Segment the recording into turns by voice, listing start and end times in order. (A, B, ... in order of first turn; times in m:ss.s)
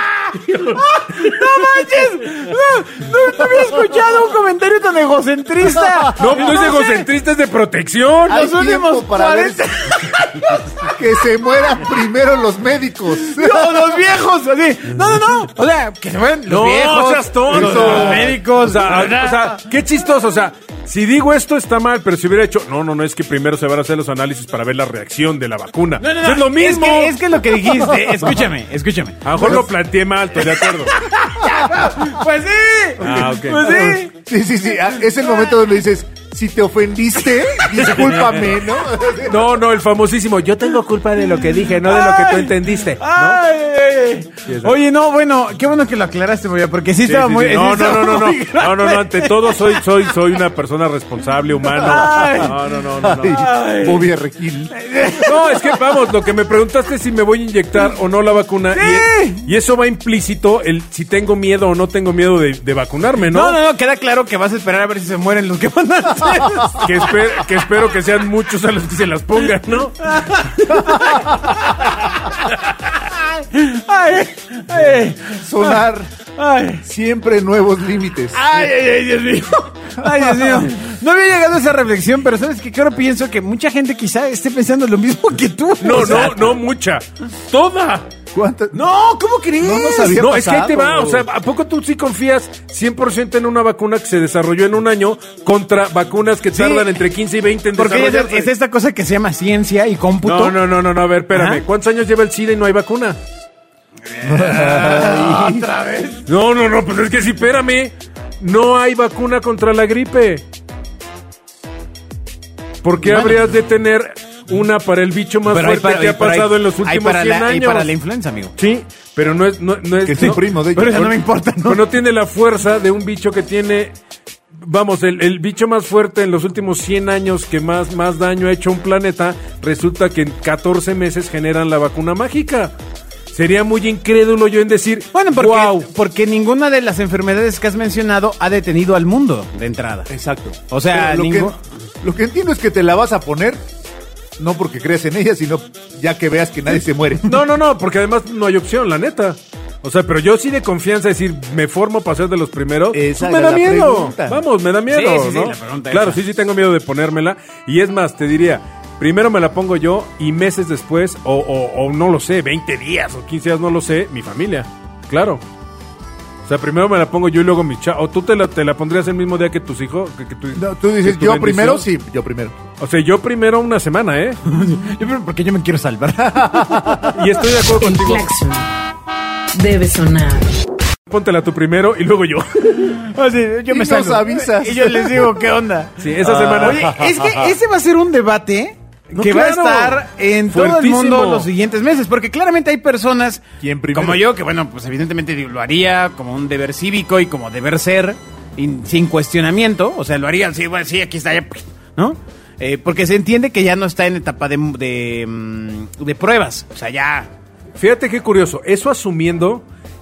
0:00.3-0:01.8 A
0:00.7-0:07.0 B
0:06.2-0:08.4 A
0:08.3-0:11.0 B
0:08.3-0:09.6 C
0:10.8-0:14.0 C
0:13.2-0:19.6 B
0:16.5-0:27.9 A
0:17.5-0:18.4 C
0:26.0-0:29.6 B
0:29.2-0:31.0 A
0:29.4-0:29.7 C
0:30.4-0:34.1 B
0:33.0-0:33.9 A
0:33.0-0:39.5 C
0:35.2-0:35.5 B
0:37.6-0:38.1 B
0:38.0-0:38.4 A
0:39.2-0:43.4 A
0:41.8-0:50.1 B
0:44.4-0:44.8 A
0:47.0-0:53.4 A
0:51.7-0:52.6 B
0:53.0-0:54.8 C
0:53.3-0:54.1 B
0:54.7-0:55.8 B
0:55.2-1:03.6 A
0:58.7-0:59.4 B
1:03.2-1:07.4 B
1:06.8-1:10.5 A
1:10.0-1:15.8 B
1:10.9-1:11.2 C
1:15.3-1:16.1 C
1:16.4-1:16.8 B
1:16.8-1:18.6 C
1:18.3-1:26.6 B
1:20.0-1:20.4 C
1:25.8-1:28.1 A
1:25.9-1:26.5 C
1:28.3-1:28.8 C
1:28.7-1:30.2 B
1:29.6-1:31.3 C
1:30.0-1:38.5 A
1:36.5-1:36.9 B
1:37.8-1:40.6 B
1:40.2-1:43.2 A
1:41.3-1:41.6 B
1:44.1-1:46.3 B
1:44.2-1:45.7 C
1:46.3-1:50.4 A
1:52.8-1:57.9 A
1:53.1-1:53.3 C
1:55.5-1:58.5 B
1:58.6-2:00.4 A
2:00.0-2:01.1 C
2:00.2-2:01.8 B
2:01.6-2:03.9 A
2:04.6-2:12.7 A
2:13.3-2:15.9 A
2:15.1-2:20.1 B
2:20.1-2:23.6 C
2:20.7-2:21.6 B
2:24.4-2:27.4 C
2:27.2-2:45.4 A
2:32.9-2:34.4 C
2:34.9-2:36.2 B
2:46.5-2:51.9 A
2:50.6-2:52.6 C
2:52.8-2:54.4 A
2:54.4-2:57.2 B
2:56.2-2:57.2 C
2:57.1-2:58.3 A
2:57.7-2:58.7 D
2:59.5-3:00.6 D
3:01.1-3:03.0 A
3:02.8-3:27.3 B
3:03.7-3:05.4 C
3:06.0-3:07.2 A
3:06.2-3:07.2 C
3:09.1-3:11.5 A
3:13.6-3:14.2 C
3:27.8-3:29.6 A